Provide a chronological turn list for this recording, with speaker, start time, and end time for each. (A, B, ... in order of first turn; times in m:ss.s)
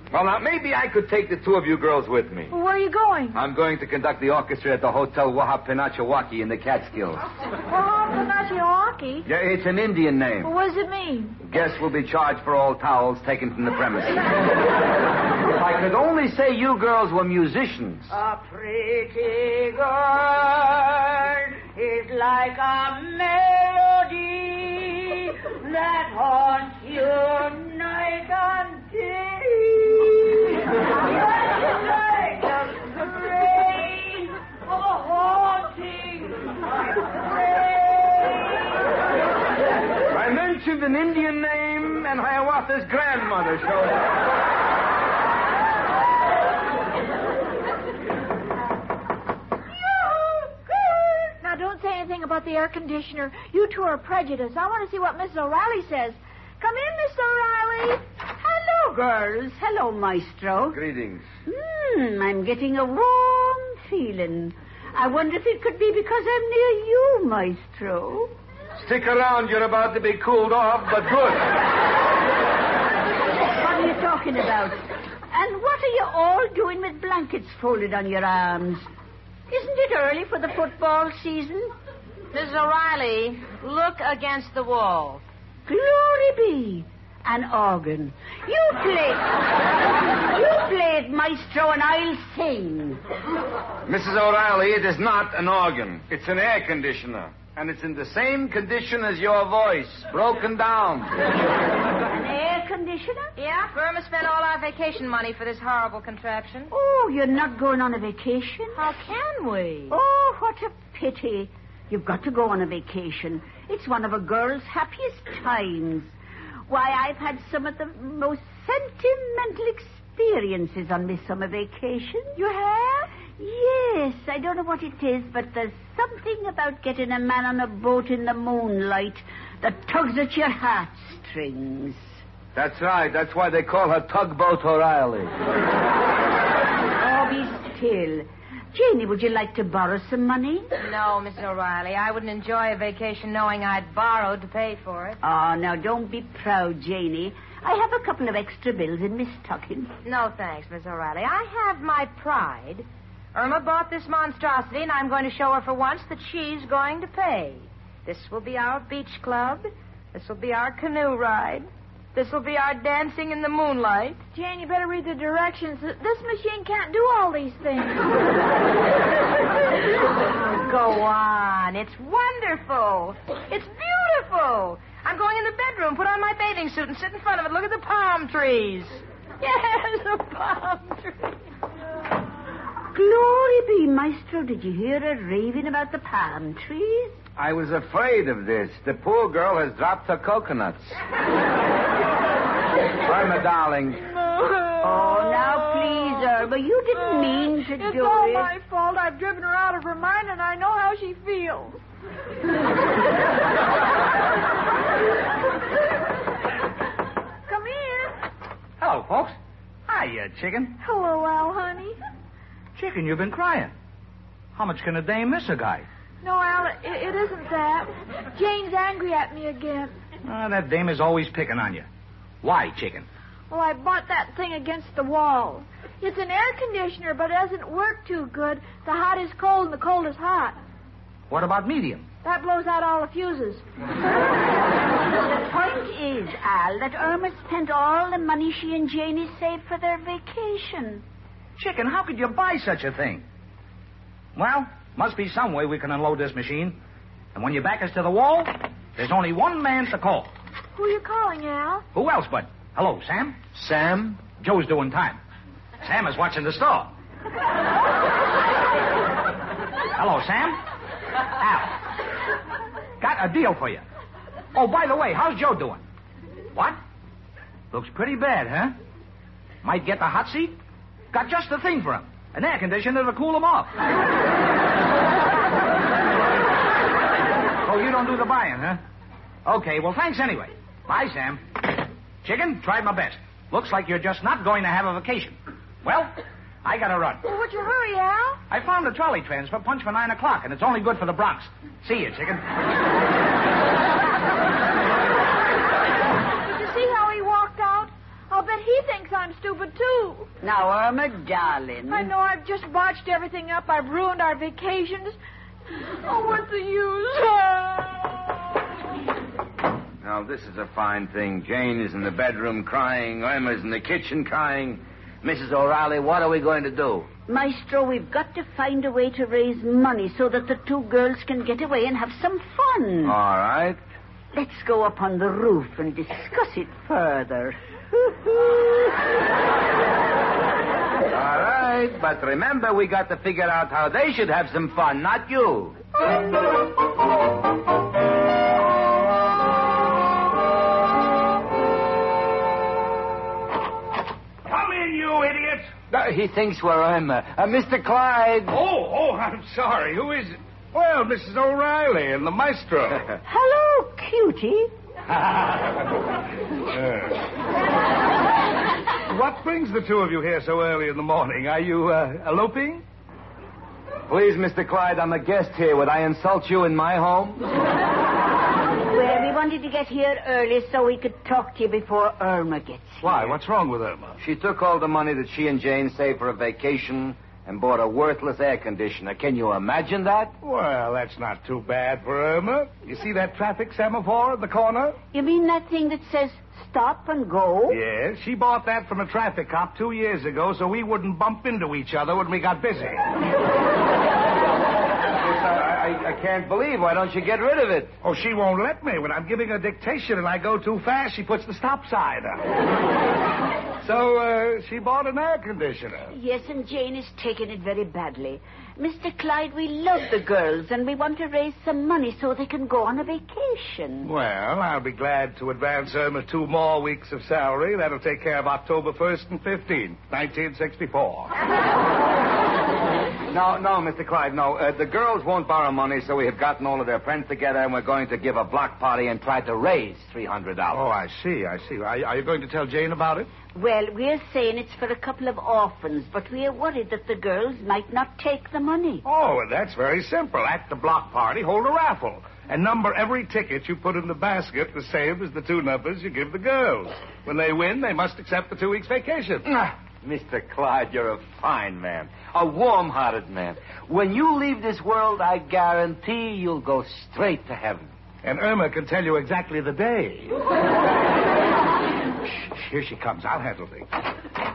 0:00.1-0:02.5 A
0:02.5-0:03.4 B
0:03.3-0:07.3 A
0:07.7-0:09.2 B
0:09.2-0:10.5 A
0:10.4-0:11.4 B
0:11.4-0:14.2 A
0:15.5-0:18.1 A
0:18.1-0:38.8 C
0:40.1-0:44.1 A
0:49.9-0:51.2 C
0:51.4-0:58.0 B
0:58.4-1:00.8 C
1:00.7-1:01.2 A
1:01.4-1:08.3 C
1:08.8-1:11.5 A
1:13.6-1:18.9 C
1:19.5-1:21.7 C
1:22.3-1:25.2 D
1:25.7-1:33.0 C
1:33.8-1:41.1 A
1:42.1-1:43.3 C
1:43.4-1:46.7 D
1:46.7-1:48.8 C
1:48.7-1:50.0 D
1:49.9-1:56.1 C
1:56.7-2:02.4 C
2:02.4-2:03.1 B
2:03.3-2:12.0 C
2:12.5-2:15.3 A
2:17.0-2:20.7 C
2:20.8-2:25.2 D
2:25.2-2:29.9 C
2:30.0-2:44.2 D
2:44.3-2:48.1 B
2:50.3-3:01.2 D
3:02.9-3:07.2 C
3:07.4-3:11.0 A
3:13.0-3:14.0 A
3:14.3-3:16.1 B
3:14.8-3:18.5 C
3:17.8-3:21.8 B
3:27.5-3:28.2 B
3:28.8-3:29.4 E
3:29.9-3:30.8 E
3:30.8-3:32.0 B
3:32.8-3:33.7 E
3:34.5-3:35.8 E
3:36.2-3:39.9 B
3:40.2-3:41.9 E
3:42.4-3:43.1 E
3:43.5-3:50.6 B
3:51.3-3:52.1 E
3:52.2-3:53.6 B
3:55.2-4:01.0 C
4:01.6-4:03.2 E
4:04.4-4:06.8 E
4:07.3-4:10.3 E
4:10.7-4:11.8 B
4:11.9-4:13.4 E
4:13.5-4:14.2 A
4:14.4-4:15.2 E
4:15.8-4:16.9 E
4:20.0-4:20.6 E
4:21.4-4:21.8 E
4:23.0-4:23.8 E
4:24.5-4:25.8 E
4:27.7-4:28.7 E
4:29.6-4:30.6 E
4:31.1-4:33.7 E
4:37.6-4:38.8 E
4:39.4-4:41.6 E
4:42.2-4:47.2 E
4:47.2-4:48.4 B
4:48.5-4:52.4 E
4:56.4-5:00.3 B
5:00.4-5:02.1 C
5:01.9-5:05.2 B
5:06.0-5:08.3 B
5:10.0-5:17.1 A
5:17.3-5:23.2 C
5:23.0-5:23.8 A
5:24.3-5:28.9 C
5:31.1-5:35.8 A
5:44.4-5:45.7 F
5:45.9-5:48.5 A
5:48.5-5:53.1 F
5:53.2-5:54.7 C
5:55.1-5:56.0 F
5:56.6-5:57.2 F
5:59.1-6:02.8 F
6:04.1-6:07.4 A
6:08.9-6:13.0 C
6:13.0-6:14.2 F
6:14.2-6:20.3 A
6:20.4-6:25.0 F
6:25.1-6:27.8 C
6:27.7-6:33.1 F
6:35.2-6:37.9 A
6:38.0-6:42.4 F
6:43.8-6:46.1 F
6:46.1-6:54.1 C
6:54.0-7:01.3 F
7:03.3-7:10.9 A
7:10.7-7:13.3 F
7:13.5-7:19.0 C
7:19.0-7:29.4 F
7:29.4-7:37.9 A
7:38.2-7:40.4 F
7:42.3-7:43.9 F